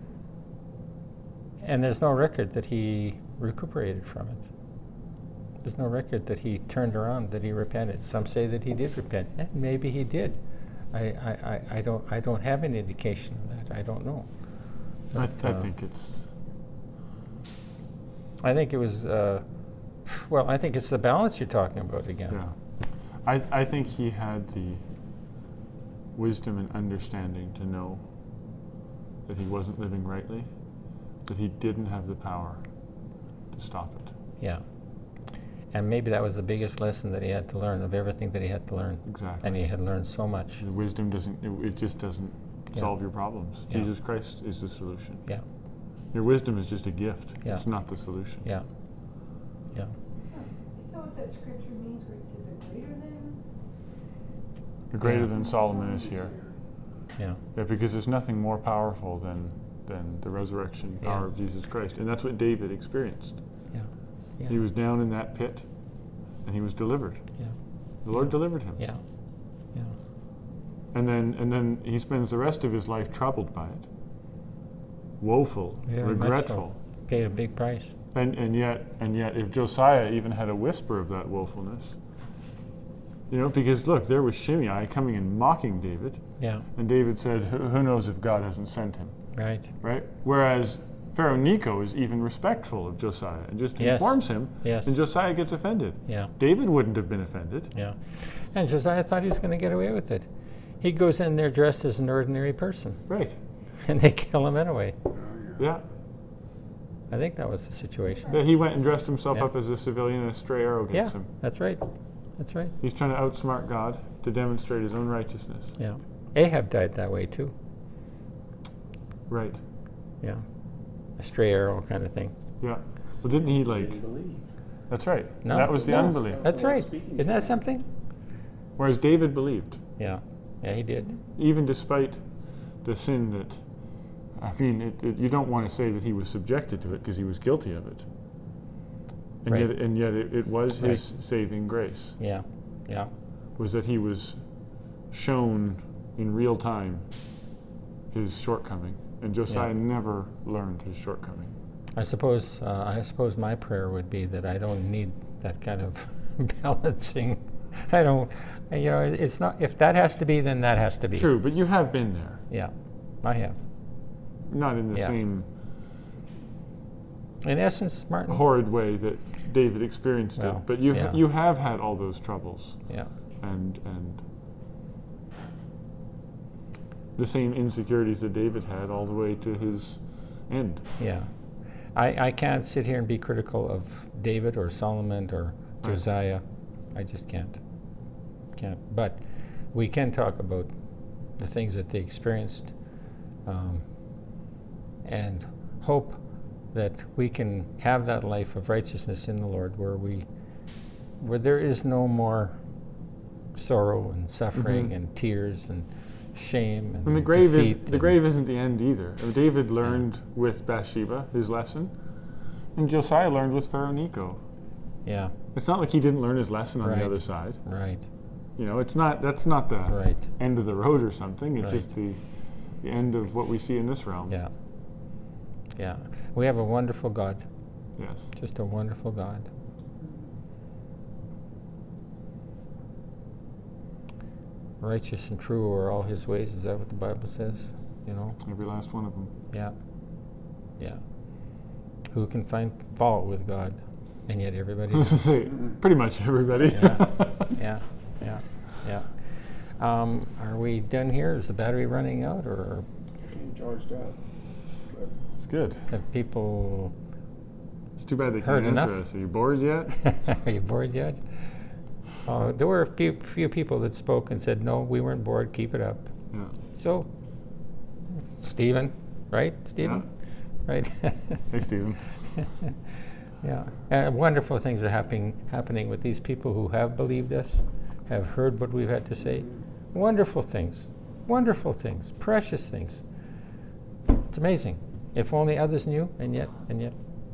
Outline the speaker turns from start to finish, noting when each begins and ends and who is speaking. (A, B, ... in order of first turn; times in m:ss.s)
0:01.6-0:04.4 A
0:05.6-0:10.4 A
0:10.9-0:14.3 A
0:15.1-0:15.7 A
0:15.2-0:16.2 B
0:18.4-0:19.4 A
0:20.0-0:22.4 A
0:23.2-0:24.8 B
0:26.2-0:28.0 B
0:29.3-0:30.5 B
0:31.3-0:32.6 B
0:33.5-0:34.1 B
0:35.7-0:40.6 A
0:39.1-0:39.6 B
0:40.6-0:45.3 B
0:46.1-0:48.5 B
0:50.3-0:53.4 C
0:54.9-0:56.3 B
0:55.0-0:55.3 A
0:57.6-1:03.4 B
1:04.5-1:05.6 B
1:06.4-1:07.2 B
1:08.0-1:08.8 B
1:08.1-1:09.0 A
1:10.9-1:13.9 B
1:15.2-1:16.8 B
1:15.9-1:17.9 A
1:18.1-1:22.0 B
1:23.3-1:26.2 B
1:26.4-1:26.6 A
1:26.8-1:29.2 B
1:29.4-1:29.7 A
1:29.8-1:37.7 B
1:33.8-1:34.9 A
1:38.5-1:40.3 A
1:40.8-1:43.0 A
1:43.1-1:43.4 B
1:43.8-1:45.0 A
1:45.2-1:45.6 D
1:45.6-1:45.8 B
1:47.1-1:48.4 A
1:48.3-1:51.3 B
1:50.9-1:51.8 A
1:52.4-1:52.8 A
1:52.8-1:55.8 B
1:55.8-1:57.5 A
1:59.3-1:59.6 B
2:01.2-2:02.3 A
2:02.6-2:04.0 B
2:03.6-2:04.5 D
2:04.9-2:06.4 B
2:05.4-2:07.8 A
2:05.5-2:07.6 D
2:08.8-2:09.8 B
2:10.0-2:11.1 A
2:11.4-2:12.2 B
2:12.8-2:13.6 B
2:14.4-2:18.0 B
2:19.4-2:22.2 B
2:22.2-2:23.1 A
2:23.6-2:24.4 B
2:25.1-2:27.0 B
2:28.1-2:31.5 B
2:32.0-2:41.3 A
2:41.1-2:42.4 B
2:42.5-2:43.6 A
2:44.5-2:45.5 B
2:47.4-2:48.4 A
2:48.3-2:52.8 B
2:50.4-2:51.2 A
2:53.4-2:54.2 B
2:57.2-3:00.8 B
3:01.0-3:01.3 A
3:02.0-3:06.4 A
3:06.9-3:07.6 A
3:08.6-3:09.2 A
3:09.7-3:10.7 A
3:11.4-3:12.7 A
3:13.5-3:13.8 A
3:15.0-3:16.2 A
3:16.7-3:20.3 A
3:21.2-3:22.6 A
3:23.6-3:28.1 A
3:24.6-3:24.9 B
3:27.0-3:31.9 B
3:32.8-3:34.4 B
3:35.0-3:35.3 A
3:35.5-3:37.6 B
3:36.8-3:38.0 A
3:38.6-3:42.2 B
3:39.9-3:40.2 A
3:41.6-3:41.9 A
3:42.8-3:44.4 B
3:45.8-3:47.4 A
3:48.0-3:48.3 B
3:48.4-3:49.5 A
3:54.8-3:58.4 A
3:58.4-3:59.3 B
4:02.1-4:05.3 A
4:04.9-4:07.6 B
4:06.7-4:09.1 A
4:09.8-4:12.9 A
4:13.2-4:14.2 D
4:15.4-4:15.8 B
4:15.9-4:16.9 A
4:18.0-4:20.0 B
4:18.4-4:18.9 A
4:20.0-4:21.2 A
4:22.2-4:26.1 A
4:26.7-4:27.1 A
4:28.4-4:30.0 A
4:30.7-4:31.4 A
4:31.5-4:32.0 B
4:32.4-4:32.7 A
4:33.4-4:43.0 A
4:44.3-4:46.9 A